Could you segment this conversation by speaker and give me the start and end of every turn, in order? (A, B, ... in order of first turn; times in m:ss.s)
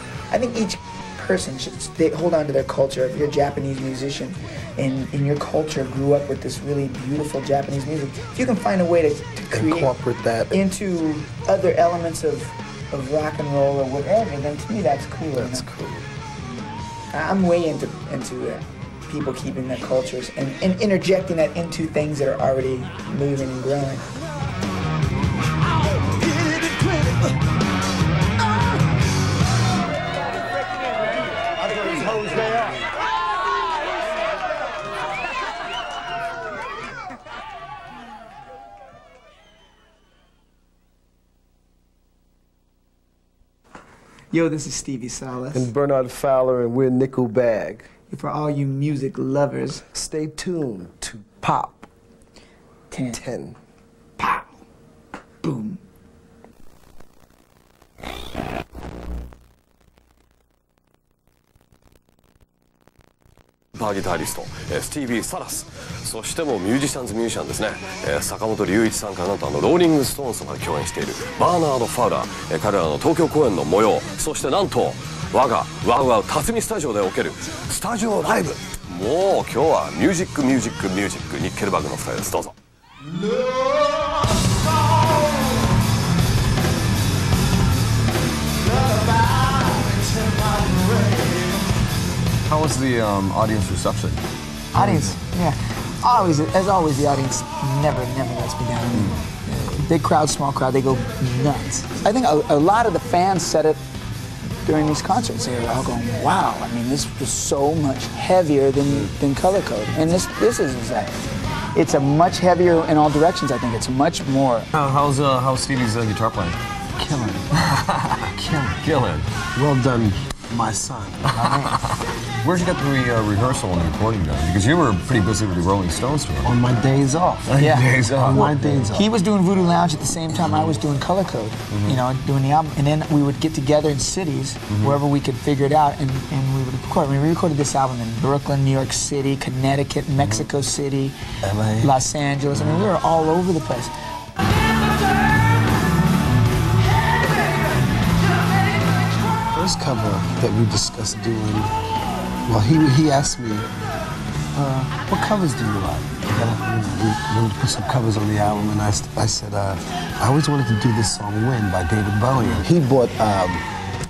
0:00.3-0:09.9 A
0:09.5-0:10.6 B
0:10.5-0:15.7 A
0:15.3-0:16.1 B
0:17.1-0:24.0 A
0:25.7-0:27.4 B
0:28.4-0:28.7 B
0:44.3-0:45.7 A
0:45.5-0:47.9 B
0:48.1-0:49.8 A
0:49.9-0:51.9 B
0:52.9-0:53.2 A
0:53.1-0:53.6 B
0:54.2-0:54.6 A
0:55.4-0:55.8 A
1:03.7-1:22.5 C
1:23.2-1:25.4 B
1:28.7-1:31.6 B
1:32.5-1:34.2 D
1:34.7-1:43.8 A
1:34.7-1:35.1 D
1:38.9-1:39.2 D
1:44.6-1:51.1 A
1:48.9-1:49.1 D
1:51.7-1:54.7 A
1:54.7-1:56.6 D
1:57.0-1:57.7 B
1:57.6-1:58.2 D
1:58.3-1:58.8 B
1:58.8-1:59.3 D
1:59.5-2:01.5 B
2:01.2-2:06.6 D
2:01.4-2:01.8 A
2:06.4-2:09.0 B
2:07.4-2:09.0 D
2:07.5-2:21.2 A
2:11.7-2:12.0 D
2:14.7-2:15.0 D
2:20.2-2:20.5 D
2:21.4-2:21.9 B
2:21.8-2:23.9 A
2:29.5-2:31.7 B
2:32.5-2:33.7 B
2:34.5-2:43.6 B